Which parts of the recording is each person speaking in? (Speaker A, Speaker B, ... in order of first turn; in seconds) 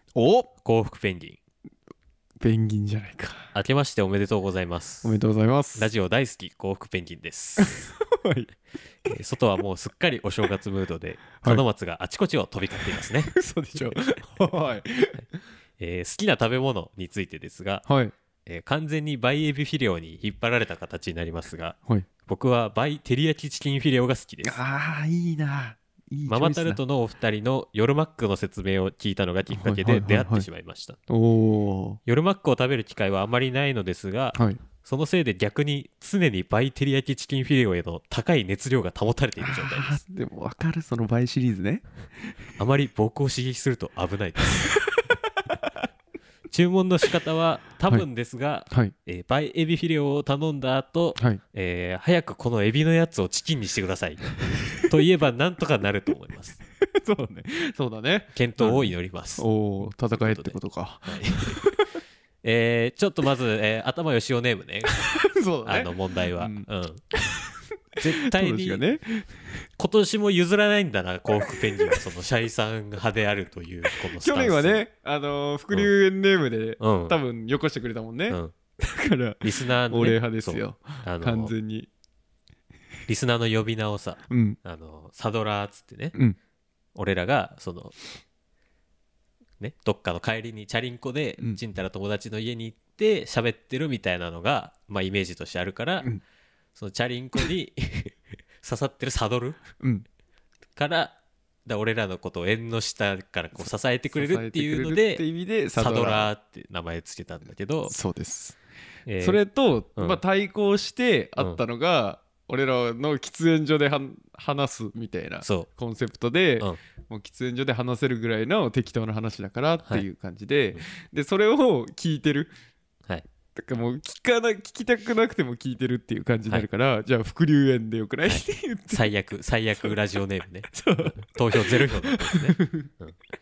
Speaker A: 0.1-0.5, 2.4-3.5, 5.0-5.9, 7.6-8.5, 13.0-15.2, 17.9-18.1, 24.4-26.8, 29.5-30.5, 31.1-32.0, 34.3-34.6, 39.4-42.3, 48.7-48.9, 56.8-62.0, 65.0-69.6, 71.4-72.0, 74.0-81.9, 84.3-84.6, 99.8-100.0, 104.1-106.3, 107.9-108.6, 109.2-122.5, 123.5-129.1, 130.7-132.9
Speaker B: 0.6-1.4, 3.5-5.2, 5.7-7.9, 9.1-14.0, 15.8-17.8, 18.4-24.6, 26.3-31.0, 32.0-40.0, 42.6-44.8, 46.5-56.6, 58.3-59.5, 60.2-61.6, 62.4-67.0, 68.0-68.8, 69.8-74.8, 76.8-77.2, 79.4-81.5, 83.1-86.1, 86.9-88.0, 89.6-96.1, 96.7-99.6, 100.8-105.2, 105.7-107.9, 109.1-109.4, 115.4-115.7, 128.2-133.2